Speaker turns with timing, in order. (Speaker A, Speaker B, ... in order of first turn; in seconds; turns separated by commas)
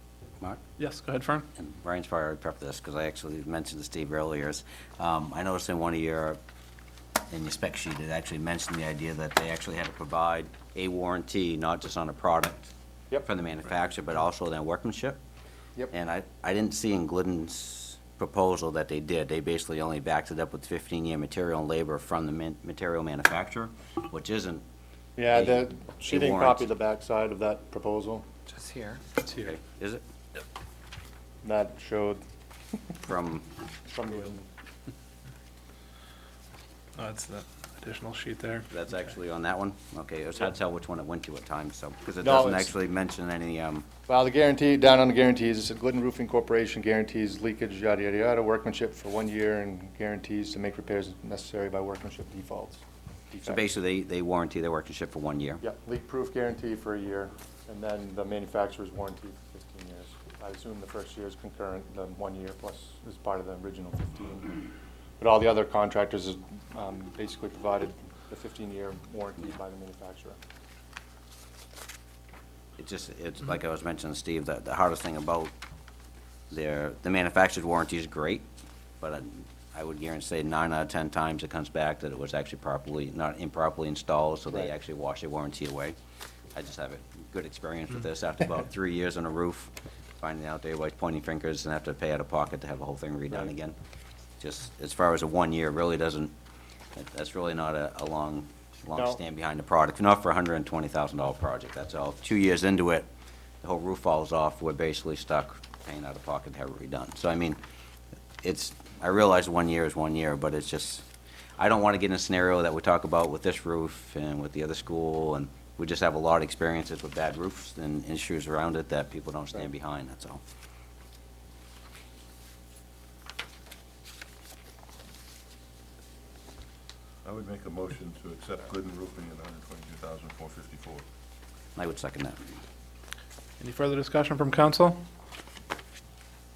Speaker A: 0.8-1.5, Speaker B: 1.6-6.4, Speaker B: 7.3-15.2, Speaker B: 15.9-24.6, Speaker C: 25.2-28.3, Speaker B: 25.3-26.7, Speaker B: 29.2-30.0, Speaker C: 31.4-32.2, Speaker B: 33.0-33.5, Speaker C: 33.9-34.5, Speaker A: 37.0-39.0, Speaker B: 38.7-43.9, Speaker C: 42.2-42.7, Speaker C: 44.1-53.6, Speaker B: 53.4-55.6, Speaker C: 55.6-64.6, Speaker C: 65.2-70.4, Speaker B: 72.8-75.5, Speaker B: 76.5-78.5, Speaker B: 79.0-86.0, Speaker B: 86.5-93.8, Speaker B: 94.4-96.3, Speaker B: 97.0-103.1, Speaker C: 98.9-99.2, Speaker B: 103.6-107.6, Speaker B: 108.4-111.0, Speaker B: 111.6-120.4, Speaker D: 127.2-131.1, Speaker B: 131.8-132.4, Speaker A: 133.6-135.0